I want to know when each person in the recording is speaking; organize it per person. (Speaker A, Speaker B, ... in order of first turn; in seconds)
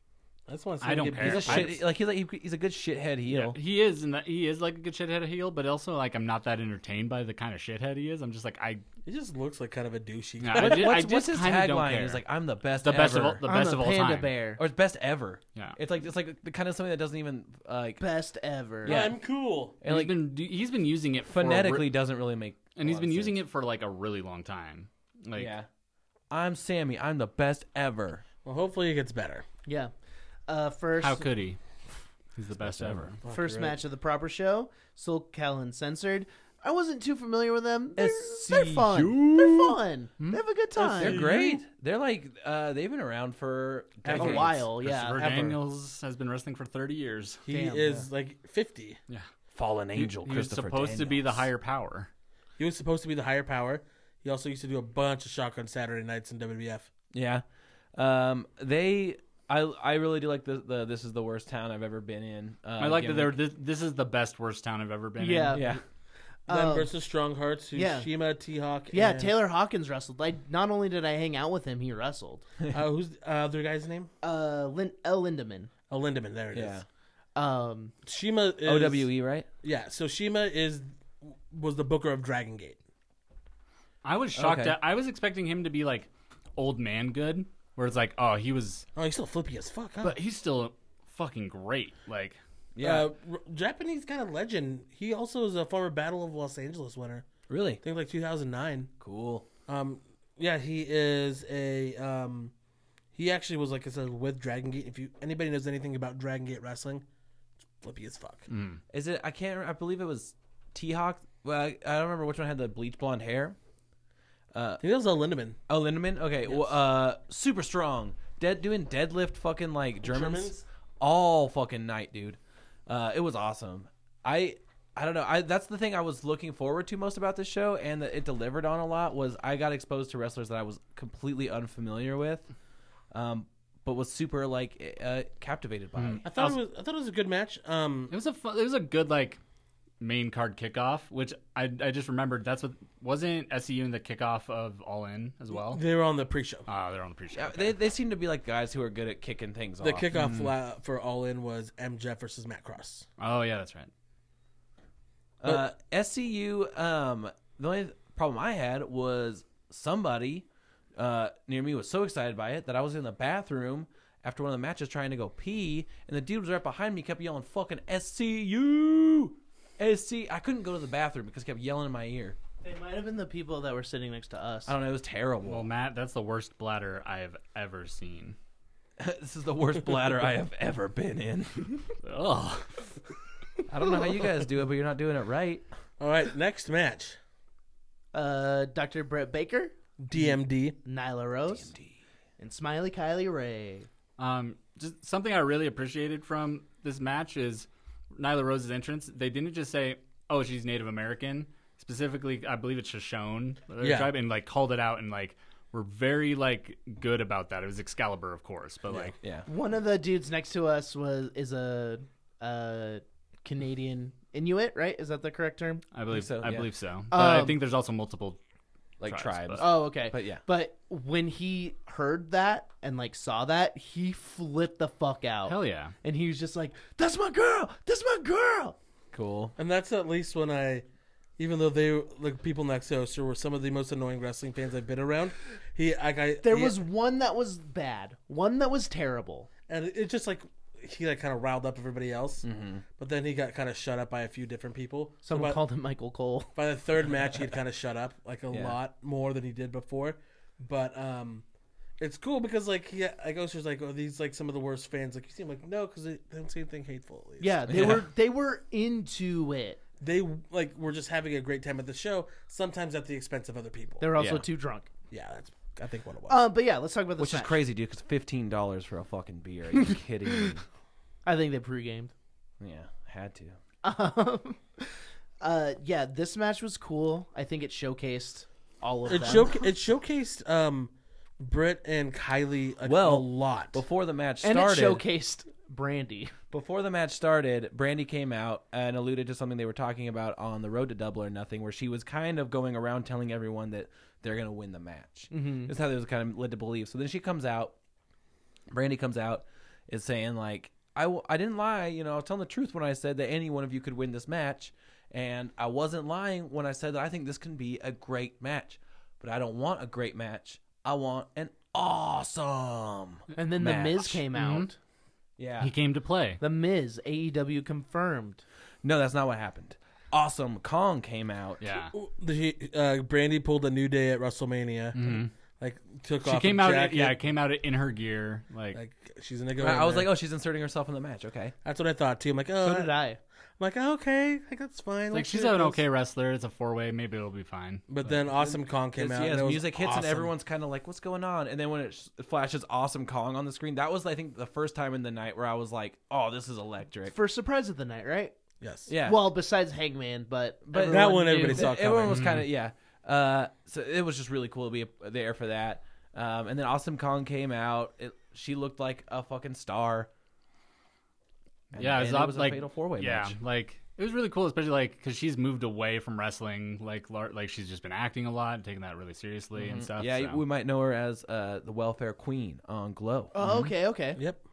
Speaker A: 0.5-1.8, 9.1-11.0, 18.9-19.8, 28.4-29.5, 33.2-33.8, 40.8-41.6, 44.0-44.6, 45.2-45.5, 47.5-49.0, 52.6-56.9, 66.5-69.3, 72.7-74.1, 75.9-76.8, 78.0-79.1, 79.6-82.8, 89.0-90.2, 92.8-97.3, 97.8-98.9, 99.7-102.5, 103.2-107.0, 107.8-108.5, 114.8-115.6, 120.0-120.7, 136.2-138.1, 145.5-146.7, 149.8-153.1, 186.0-187.2, 190.0-190.8, 203.8-204.1, 229.6-230.9, 231.4-236.8, 239.7-245.6, 246.6-251.4, 252.0-258.0, 260.0-264.1, 265.1-266.4, 279.1-283.8, 321.9-327.2, 328.7-330.1, 331.6-332.9, 333.6-335.8, 337.9-340.3, 348.6-348.9, 350.8-352.3, 374.2-374.4
Speaker B: 0.8-1.8, 3.3-8.8, 10.4-12.2, 12.8-14.3, 19.9-21.9, 22.8-25.5, 31.0-31.6, 32.4-33.2, 39.2-40.4, 44.8-47.4, 49.9-52.1, 62.8-65.7, 84.0-88.9, 90.0-92.4, 108.5-108.8, 136.0-136.6, 138.1-139.4, 140.0-145.8, 146.7-147.8, 150.1-150.5, 153.2-153.9, 175.4-178.4, 182.0-183.1, 194.2-209.2, 215.9-218.4, 219.0-219.8, 225.5-225.9, 314.3-314.7, 315.6-316.4, 321.6-321.9, 324.9-325.3, 326.2-328.8, 335.1-338.1, 352.1-352.5, 361.8-370.4
Speaker C: 1.2-3.6, 10.6-13.4, 14.6-18.0, 18.9-19.1, 19.8-20.2, 21.2-23.4, 25.4-25.7, 26.3-28.2, 32.6-33.1, 38.0-39.4, 41.0-44.6, 49.5-51.5, 57.1-63.4, 65.5-65.8, 76.5-76.9, 78.6-79.5, 84.4-84.8, 92.8-93.1, 97.5-97.8, 99.0-99.5, 108.9-113.6, 114.5-114.8, 115.7-132.5, 133.1-136.3, 147.3-150.1, 155.4-160.5, 161.0-172.4, 174.7-175.7, 179.0-181.9, 183.7-185.7, 191.5-192.0, 209.2-209.5, 216.1-216.7, 219.0-220.4, 229.1-229.6, 242.4-242.8, 248.5-248.8, 257.7-258.0, 264.2-264.5, 267.2-270.6, 272.6-273.6, 282.9-285.1, 286.5-297.8, 298.7-314.2, 315.4-315.7, 318.8-321.7, 329.6-331.6, 339.0-347.1, 348.9-349.2, 350.7-360.1, 361.7-363.4, 369.6-373.4
Speaker D: 13.4-14.6, 18.0-19.0, 29.7-29.9, 30.5-31.3, 33.3-41.2, 44.1-45.2, 47.5-48.0, 65.2-65.8, 66.5-66.9, 67.8-68.1, 68.9-72.5, 74.2-75.7, 77.3-77.9, 172.6-174.7, 188.1-189.7, 190.8-191.7, 192.4-193.9, 209.5-215.8, 217.1-217.6, 219.6-228.8, 236.4-239.5, 245.2-246.5, 257.4-259.8, 264.0-264.9, 266.3-267.6, 271.2-272.1, 273.8-279.6, 284.4-286.4, 295.3-295.7, 313.4-314.8, 316.4-318.4, 332.6-333.2, 347.1-348.4, 349.0-351.7, 373.3-374.2